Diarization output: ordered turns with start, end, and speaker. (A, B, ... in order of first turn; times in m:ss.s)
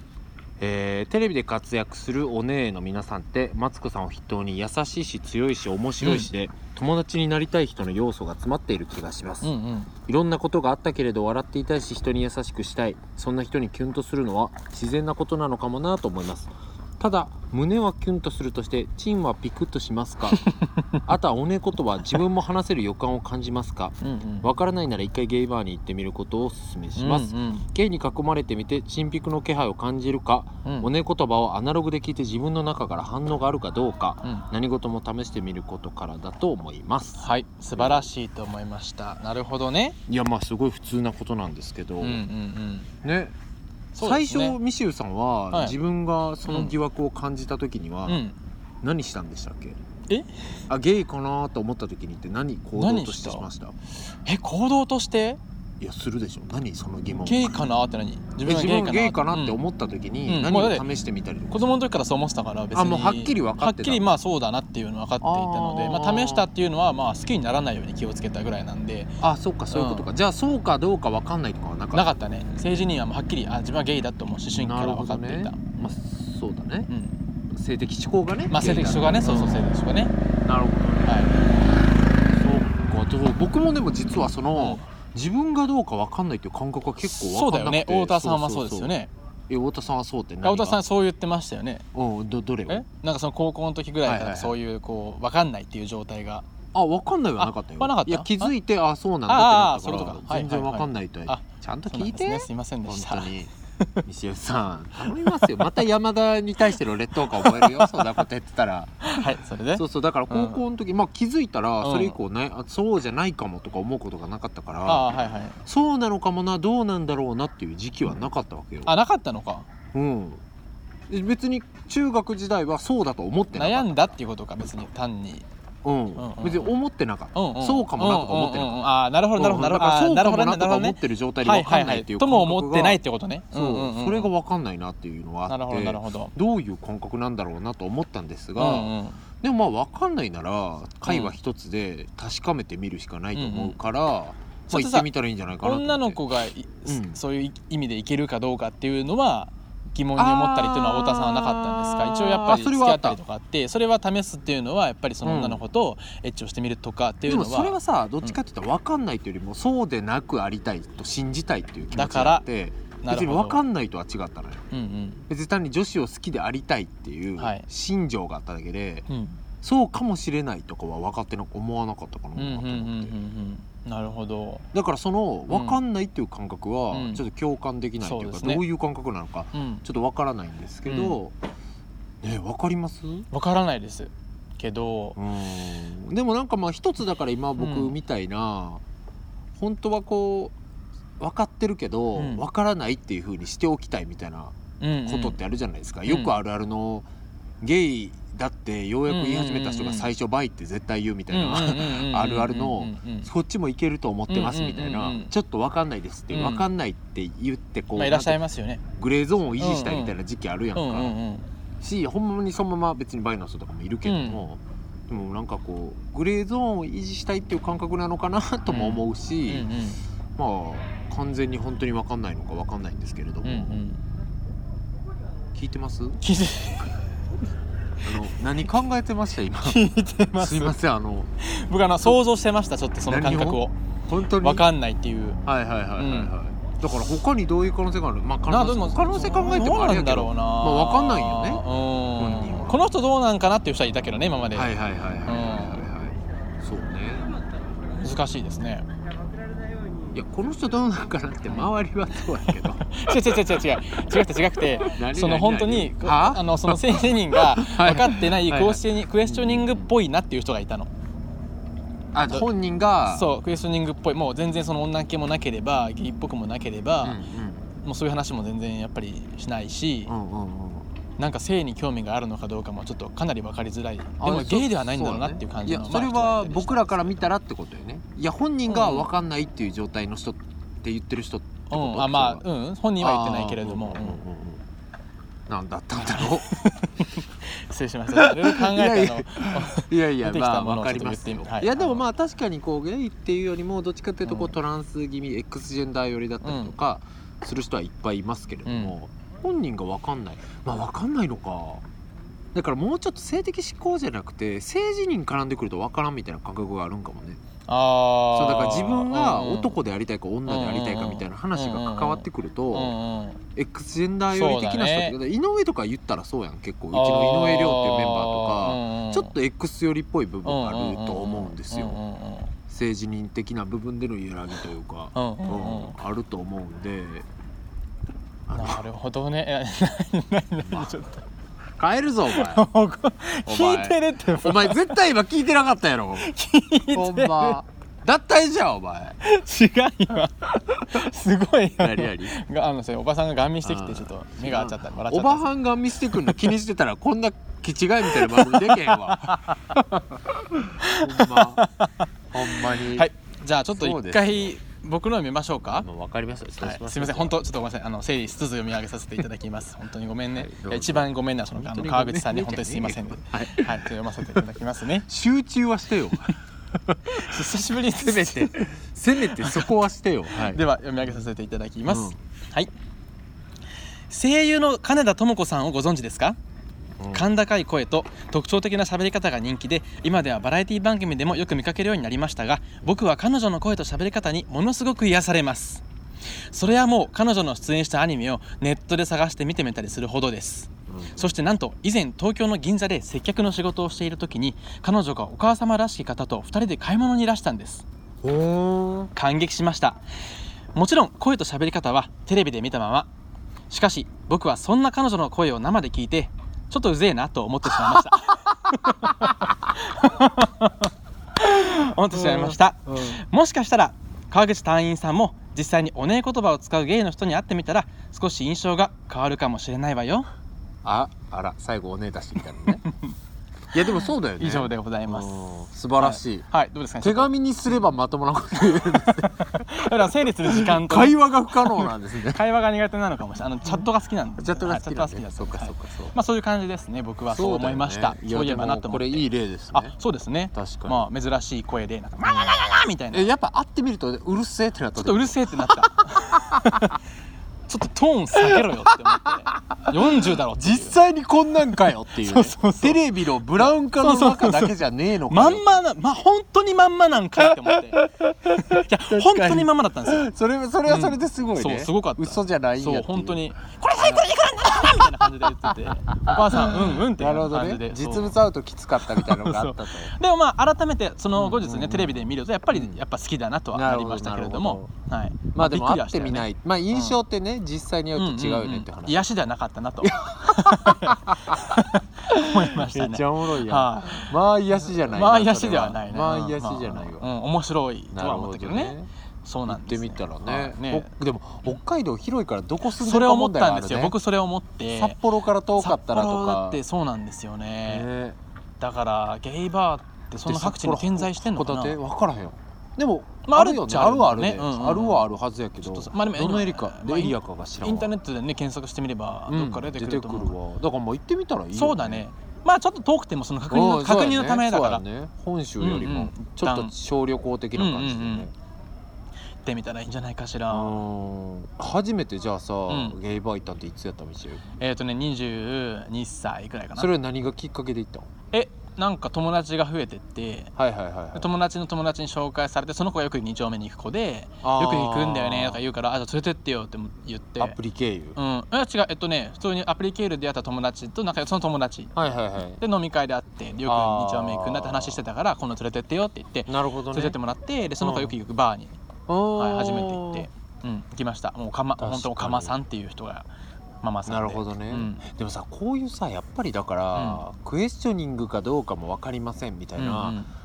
0:00.6-0:09.6 A
0:06.0-0:06.3 B
0:09.4-0:09.9 B
0:10.1-0:20.5 A
0:20.3-0:20.8 B
0:21.0-0:38.1 A
0:24.0-0:24.5 B
0:27.0-0:27.6 B
0:37.2-0:40.0 B
0:40.1-0:42.2 A
0:42.0-0:42.9 B
0:43.0-0:43.3 A
0:43.9-0:44.6 B
0:44.0-0:48.2 A
0:45.5-0:45.8 B
0:46.5-0:46.7 B
0:48.1-0:48.4 B
0:48.8-0:49.8 A
0:50.7-0:53.8 A
0:52.8-0:53.5 B
0:54.2-0:55.4 B
0:55.8-0:57.6 A
0:57.2-0:59.6 B
0:58.4-1:01.8 A
1:00.2-1:00.8 B
1:01.5-1:09.1 B
1:02.7-1:04.1 A
1:05.2-1:06.5 A
1:09.2-1:12.1 A
1:09.7-1:10.1 B
1:11.9-1:16.0 B
1:14.5-1:16.9 A
1:16.9-1:17.2 B
1:17.5-1:19.7 A
1:18.5-1:20.1 B
1:20.4-1:21.2 A
1:21.0-1:21.4 B
1:22.2-1:28.9 A
1:24.6-1:24.8 B
1:27.0-1:29.1 B
1:29.5-1:30.8 A
1:30.4-1:31.9 B
1:31.9-1:32.8 A
1:32.7-1:36.4 B
1:34.0-1:34.5 A
1:36.7-1:43.5 A
1:37.4-1:38.5 B
1:39.3-1:44.0 B
1:44.0-1:55.1 A
1:45.2-1:45.5 B
1:47.4-1:48.1 B
1:49.0-1:50.6 B
1:51.8-1:52.2 B
1:54.8-1:55.6 B
1:55.6-1:58.9 A
1:58.8-1:59.7 B
1:59.9-2:00.4 A
2:01.1-2:04.2 A
2:03.5-2:05.5 B
2:05.8-2:08.8 A
2:06.2-2:06.7 B
2:07.3-2:14.3 B
2:09.4-2:13.0 A
2:13.5-2:26.2 A
2:15.5-2:16.3 B
2:18.6-2:19.2 B
2:21.1-2:21.3 B
2:23.3-2:23.8 B
2:24.7-2:25.1 B
2:25.6-2:38.4 B
2:26.8-2:27.2 A
2:30.2-2:33.2 A
2:35.2-2:35.6 A
2:37.2-2:44.6 A
2:41.9-2:42.4 B
2:43.0-2:43.6 B
2:44.7-2:45.2 B
2:45.3-2:49.1 A
2:47.4-2:47.6 B
2:49.1-2:49.4 B
2:49.6-2:53.1 A
2:52.4-2:54.7 B
2:54.7-3:01.3 A
2:55.5-2:55.8 B
2:56.9-2:57.2 B
2:58.0-2:58.6 B
2:59.5-2:59.8 B
3:00.8-3:01.2 B
3:02.2-3:03.3 A
3:03.3-3:05.2 B
3:05.2-3:08.8 A
3:07.6-3:07.9 B
3:09.6-3:10.5 A
3:11.2-3:17.1 A
3:12.2-3:12.4 B
3:14.8-3:15.4 B
3:16.1-3:16.3 B
3:17.6-3:28.4 A
3:19.1-3:20.1 B
3:21.3-3:23.3 B
3:24.3-3:25.3 B
3:26.3-3:26.6 B
3:28.0-3:28.8 B
3:28.9-3:31.2 A
3:29.6-3:30.1 B
3:30.8-3:31.5 B
3:31.8-3:39.8 A
3:34.0-3:34.4 B
3:38.7-3:40.0 B
3:40.4-3:43.8 A
3:43.4-3:44.0 B
3:45.5-3:46.2 A
3:46.2-3:47.0 B
3:48.0-3:51.3 A
3:49.6-3:50.8 B
3:51.4-3:53.8 B
3:53.0-3:54.7 A
3:54.4-3:55.4 B
3:55.4-4:02.8 A
3:56.0-3:56.3 B
3:58.5-4:04.7 B
4:04.5-4:07.3 A
4:05.2-4:05.9 B
4:08.0-4:08.8 B
4:10.1-4:13.1 A
4:12.8-4:20.9 B
4:14.8-4:19.9 A
4:22.1-4:23.3 A
4:23.1-4:27.2 B
4:27.0-4:27.7 A
4:27.8-4:30.1 B
4:30.1-4:30.9 A
4:31.2-4:37.3 B
4:34.2-4:42.4 A
4:38.7-4:39.1 B
4:41.7-4:44.2 B
4:43.0-4:44.6 A
4:45.5-4:46.8 A
4:46.0-4:52.0 B
4:48.1-5:01.8 A
4:54.2-4:54.5 B
4:56.4-4:56.7 B
4:58.6-4:58.9 B
5:02.5-5:07.4 A
5:07.7-5:09.8 B
5:08.3-5:12.9 A
5:10.5-5:13.4 B
5:13.5-5:22.0 A
5:14.3-5:15.2 B
5:16.9-5:19.3 B
5:20.4-5:22.6 B
5:22.7-5:27.2 A
5:25.1-5:26.0 B
5:28.5-5:28.8 A
5:28.5-5:31.2 B
5:30.6-5:30.9 A
5:31.8-5:32.7 A
5:32.3-5:35.0 B
5:33.4-5:36.3 A
5:36.2-5:37.6 B
5:36.9-5:39.2 A
5:39.2-5:45.5 B
5:41.8-5:42.3 A
5:43.6-5:51.7 A
5:48.1-5:49.8 B
5:50.8-5:55.9 B
5:52.3-5:53.1 A
5:53.7-5:54.5 A
5:55.7-5:57.4 A
5:56.6-6:05.1 B
6:00.4-6:04.4 A
6:05.1-6:06.4 A
6:06.9-6:10.6 A
6:07.1-6:08.6 B
6:09.3-6:09.7 B
6:10.3-6:12.7 B
6:11.8-6:12.2 A
6:14.1-6:16.4 B
6:17.0-6:17.3 A
6:17.1-6:25.8 B
6:26.5-6:37.8 B
6:30.9-6:31.4 A
6:38.2-6:39.1 A
6:39.1-6:40.0 B
6:40.7-6:43.1 B
6:43.7-7:00.3 B
6:47.7-6:49.3 A
6:52.1-6:53.2 A
7:00.8-7:02.8 A
7:03.7-7:06.4 A
7:03.8-7:05.5 B
7:06.0-7:07.3 B
7:07.0-7:09.9 A
7:08.8-7:23.3 B
7:10.4-7:12.4 A
7:13.6-7:16.1 A
7:17.3-7:19.9 A
7:20.5-7:21.1 A
7:22.2-7:22.6 A
7:23.1-7:26.8 A
7:25.0-7:27.0 B
7:27.7-7:31.0 B
7:28.3-7:35.7 A
7:31.8-7:33.0 B
7:33.5-7:34.7 B
7:35.3-7:38.0 B
7:37.5-7:50.1 A
7:38.6-7:40.3 B
7:40.9-7:48.4 B
7:49.0-7:57.2 B
7:51.3-7:53.0 A
7:53.7-7:54.9 A
7:55.5-7:59.3 A
7:58.1-8:11.1 B
8:00.0-8:07.2 A
8:08.1-8:09.1 A
8:09.7-8:14.1 A
8:12.9-8:15.2 B
8:14.9-8:16.8 A
8:15.8-8:18.1 B
8:17.8-8:18.4 A
8:18.8-8:22.0 B
8:20.4-8:28.1 A
8:23.4-8:25.2 B
8:25.8-8:30.5 B
8:29.5-8:32.2 A
8:31.7-8:35.0 B
8:33.7-8:38.5 A
8:35.8-8:36.9 B
8:37.7-8:38.5 B
8:39.6-8:41.0 B
8:40.7-8:44.6 A
8:42.9-8:43.2 B
8:44.8-8:47.1 B
8:47.0-8:48.3 A
8:48.5-8:50.7 B
8:50.8-8:51.5 A
8:51.3-8:57.8 B
8:54.6-8:55.8 A
8:57.6-8:58.4 A
8:58.4-9:02.1 B
9:02.1-9:02.8 A
9:02.8-9:09.0 B
9:03.8-9:05.2 A
9:06.7-9:07.4 A
9:08.0-9:08.4 A
9:09.3-9:10.5 A
9:09.6-9:13.5 B
9:12.0-9:12.8 A
9:14.0-9:15.2 B
9:14.2-9:20.4 A
9:17.1-9:17.4 B
9:20.0-9:20.5 B